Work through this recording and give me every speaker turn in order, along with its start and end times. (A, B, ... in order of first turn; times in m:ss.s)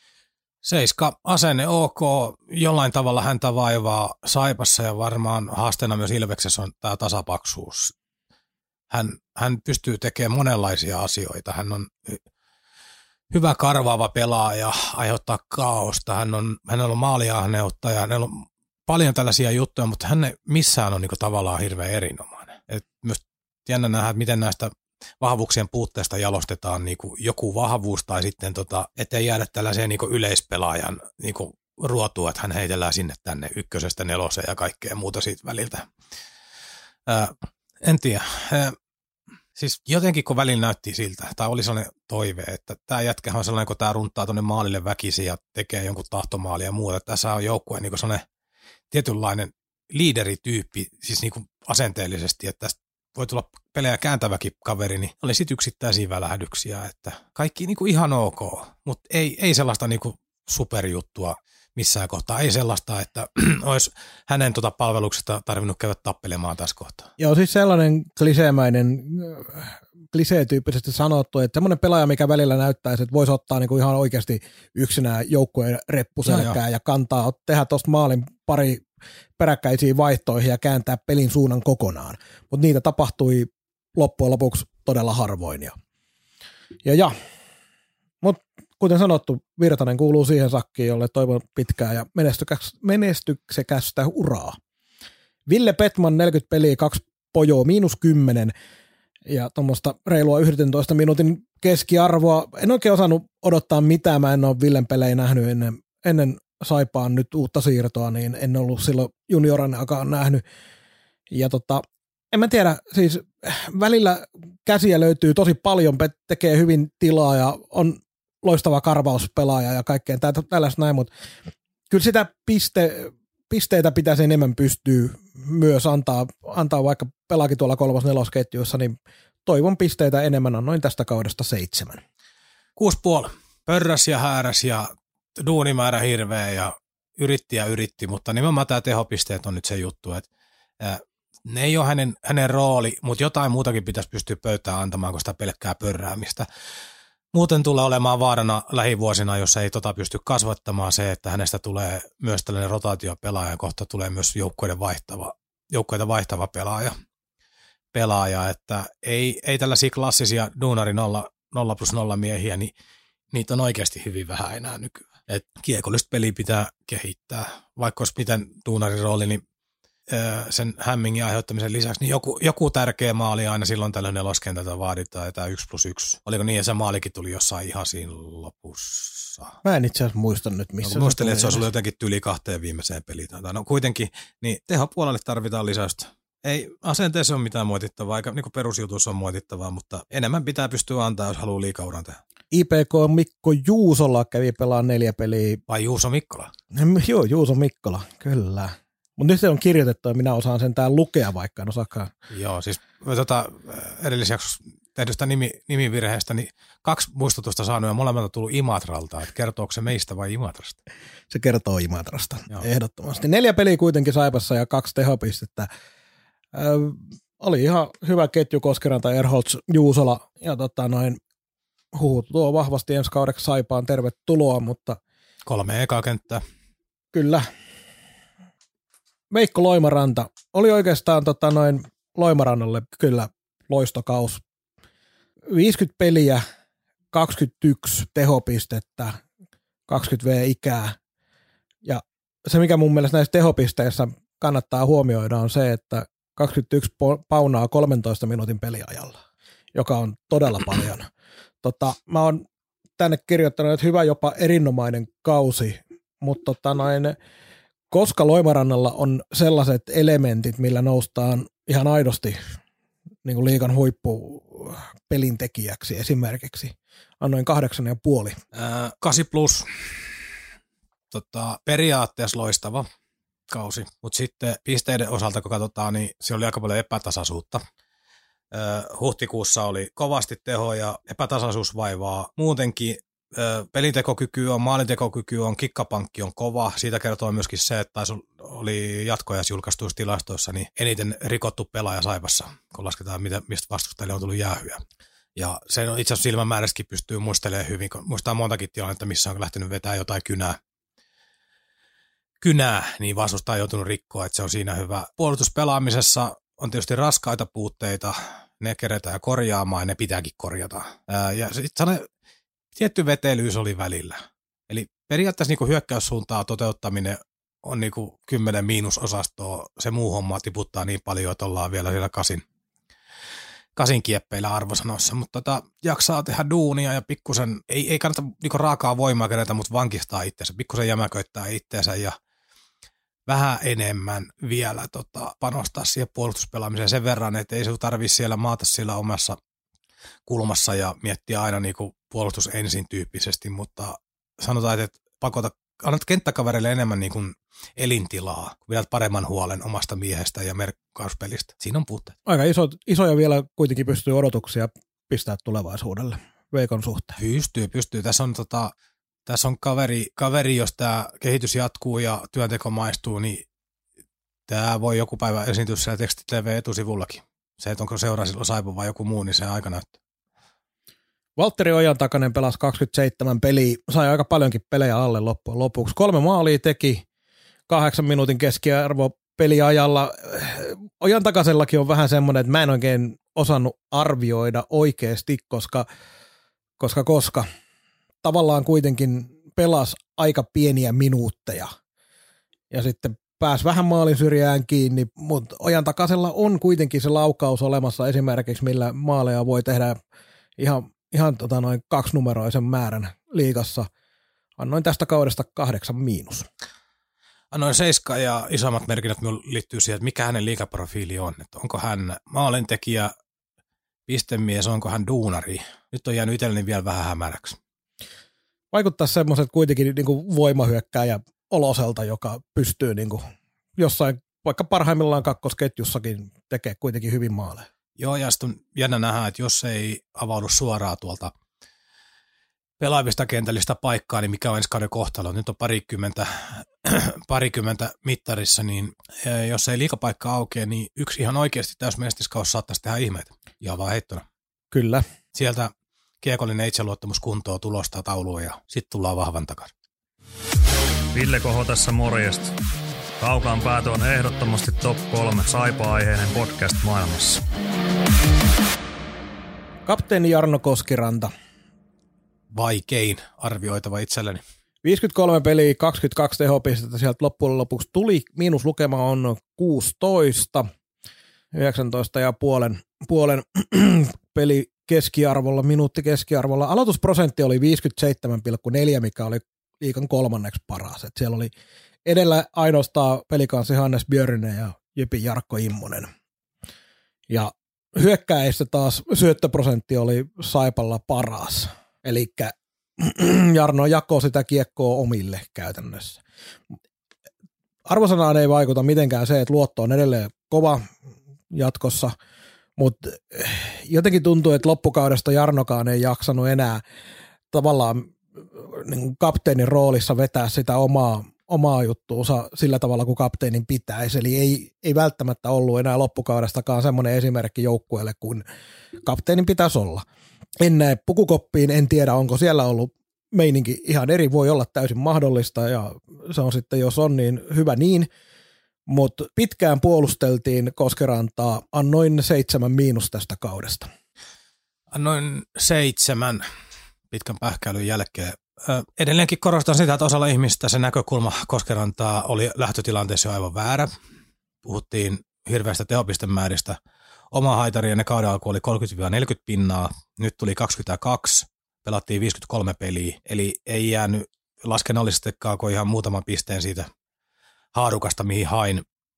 0:00.6-0:07.9 A
0:08.9-0:12.2 A
0:13.3-0:35.9 A
0:37.1-0:38.8 A
0:39.6-0:48.2 A
0:48.9-1:07.1 A
1:07.2-1:18.8 B
1:16.3-1:16.6 A
1:19.4-1:25.7 B
1:26.8-1:27.1 B
1:28.2-1:34.6 B
1:35.5-1:38.5 B
1:39.3-1:50.4 B
1:51.3-2:01.1 B
2:01.9-2:08.9 B
2:09.4-2:12.0 B
2:12.8-2:20.3 A
2:20.8-2:26.4 A
2:27.3-2:36.9 A
2:37.9-2:42.7 A
2:43.3-2:49.4 A
2:50.1-2:59.6 A
2:59.6-3:01.6 B
3:00.8-3:12.2 A
3:12.5-3:15.6 B
3:15.7-3:16.5 A
3:16.7-3:22.1 B
3:22.3-3:30.8 A
3:31.3-3:35.7 B
3:36.5-3:41.2 B
3:41.9-3:45.0 B
3:45.4-3:46.4 A
3:47.1-3:47.4 B
3:49.3-3:54.4 B
3:55.5-3:56.4 B
3:57.1-3:59.2 B
3:59.9-4:01.0 B
4:01.8-4:09.2 B
4:09.7-4:11.1 B
4:11.6-4:12.4 B
4:13.0-4:17.2 B
4:17.9-4:22.6 B
4:23.2-4:28.4 B
4:28.5-4:30.1 A
4:31.1-4:32.9 A
4:33.5-4:37.6 A
4:38.5-4:54.8 A
4:55.4-5:00.6 A
5:02.4-5:12.1 A
5:12.7-5:22.4 A
5:23.8-5:32.2 A
5:33.3-5:39.4 A
5:40.3-5:52.2 A
5:52.3-5:57.2 B
5:57.2-5:58.7 A
5:59.3-6:03.4 A
6:04.5-6:09.9 A
6:11.4-6:17.0 B
6:17.7-6:25.9 B
6:26.8-6:27.4 B
6:28.2-6:31.7 B
6:32.7-6:40.0 B
6:40.6-6:43.9 B
6:44.6-6:46.4 B
6:47.5-6:53.1 A
6:54.1-6:57.6 A
6:58.7-7:03.2 B
7:03.8-7:07.7 B
7:08.0-7:11.3 A
7:12.8-7:24.2 A
7:24.7-7:25.0 B
7:25.3-7:29.7 A
7:31.1-7:32.6 C
7:33.2-7:37.4 C
7:39.9-7:41.3 B
7:42.5-7:44.4 A
7:44.8-7:50.7 B
7:51.5-8:01.5 B
8:02.0-8:06.1 B
8:07.3-8:16.2 B
8:17.9-8:20.8 B
8:21.5-8:22.1 B
8:22.8-8:26.8 B
8:27.5-8:38.4 B
8:39.0-8:40.0 B
8:40.6-8:48.1 B
8:48.9-8:53.9 B
8:54.9-8:56.4 A
8:57.1-9:03.9 A
9:04.6-9:06.8 A
9:07.3-9:16.9 A
9:17.7-9:18.8 A